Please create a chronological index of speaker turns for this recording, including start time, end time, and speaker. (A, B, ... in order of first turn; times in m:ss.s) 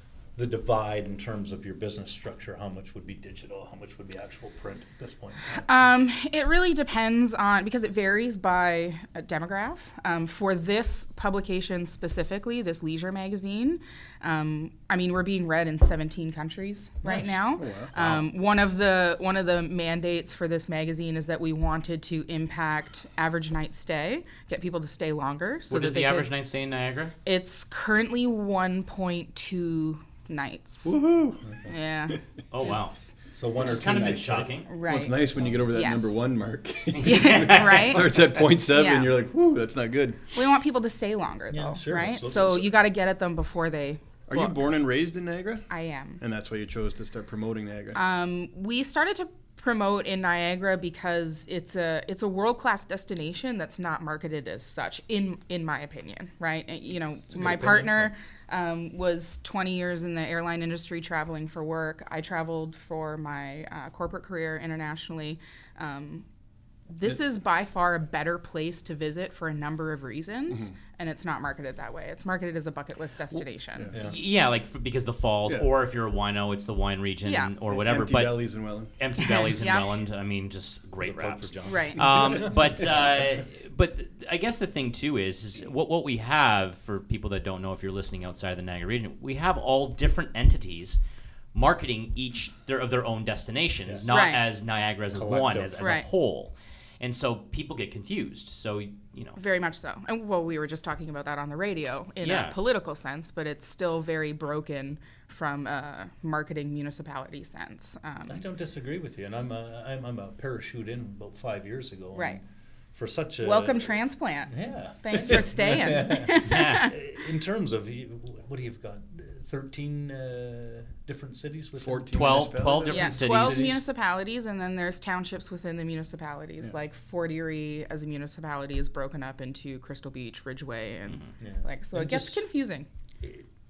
0:00.4-0:05.6 A
0:05.5-0:26.4 B
0:17.5-0:17.9 C
0:25.7-0:27.1 D
0:27.2-0:31.0 B
0:30.8-0:31.6 C
0:31.6-0:33.1 B
0:32.5-0:33.0 D
0:33.4-0:34.5 A
0:33.6-0:34.7 D
0:34.6-0:36.2 B
0:34.8-0:40.3 C
0:36.9-0:38.0 D
0:37.0-0:39.2 B
0:40.3-0:44.6 B
0:41.5-0:42.8 A
0:44.3-0:45.7 C
0:45.7-0:46.2 B
0:46.2-0:48.0 C
0:47.9-1:06.2 B
0:57.3-0:58.1 A
1:06.9-1:13.9 B
1:13.3-1:13.9 C
1:13.9-1:14.2 A
1:13.9-1:31.0 D
1:17.2-1:17.5 B
1:17.7-1:18.9 C
1:19.2-1:20.0 B
1:21.0-1:22.6 A
1:21.6-1:22.0 B
1:31.5-1:39.4 D
1:34.1-1:34.4 B
1:35.1-1:36.0 A
1:35.8-1:36.1 B
1:39.4-1:48.4 B
1:42.2-1:42.6 D
1:48.3-1:52.4 A
1:52.1-1:52.4 B
1:52.9-1:53.9 A
1:53.4-1:57.0 B
1:54.4-2:02.3 A
1:56.4-1:56.9 D
2:01.8-2:03.8 C
2:02.1-2:03.7 D
2:02.9-2:12.9 B
2:11.4-2:12.4 A